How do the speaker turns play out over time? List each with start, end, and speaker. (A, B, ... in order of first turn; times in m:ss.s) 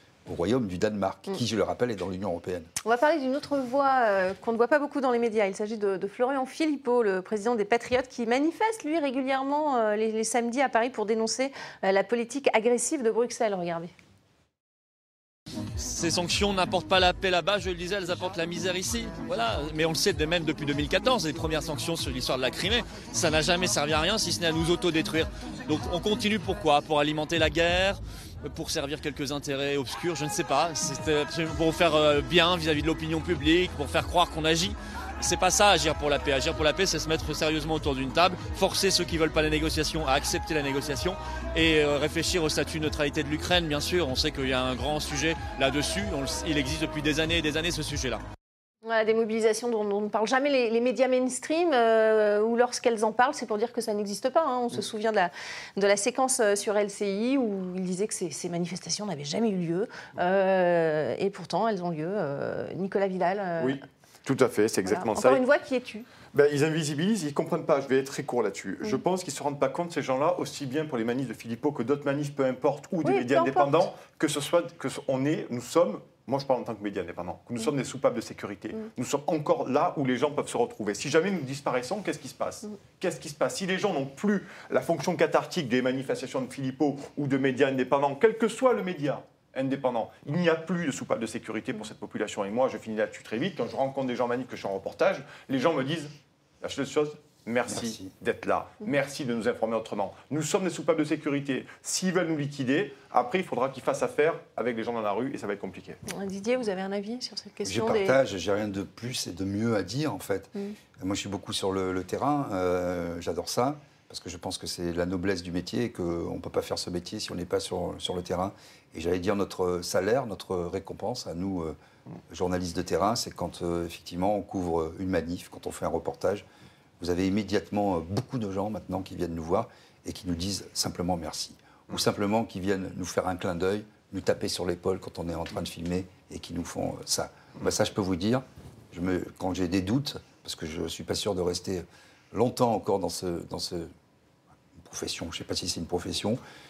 0:00.3-0:02.7 A
0:02.8-0:13.9 B
0:15.8-0:48.2 C
0:48.9-1:03.8 B
1:03.6-1:05.4 D
1:04.9-1:06.1 B
1:06.3-1:46.0 D
1:13.0-1:13.8 B
1:37.7-1:38.1 A
1:46.1-1:48.2 B
1:47.6-2:01.8 A
2:02.3-2:06.4 A
2:07.0-2:23.9 A
2:24.7-2:26.4 A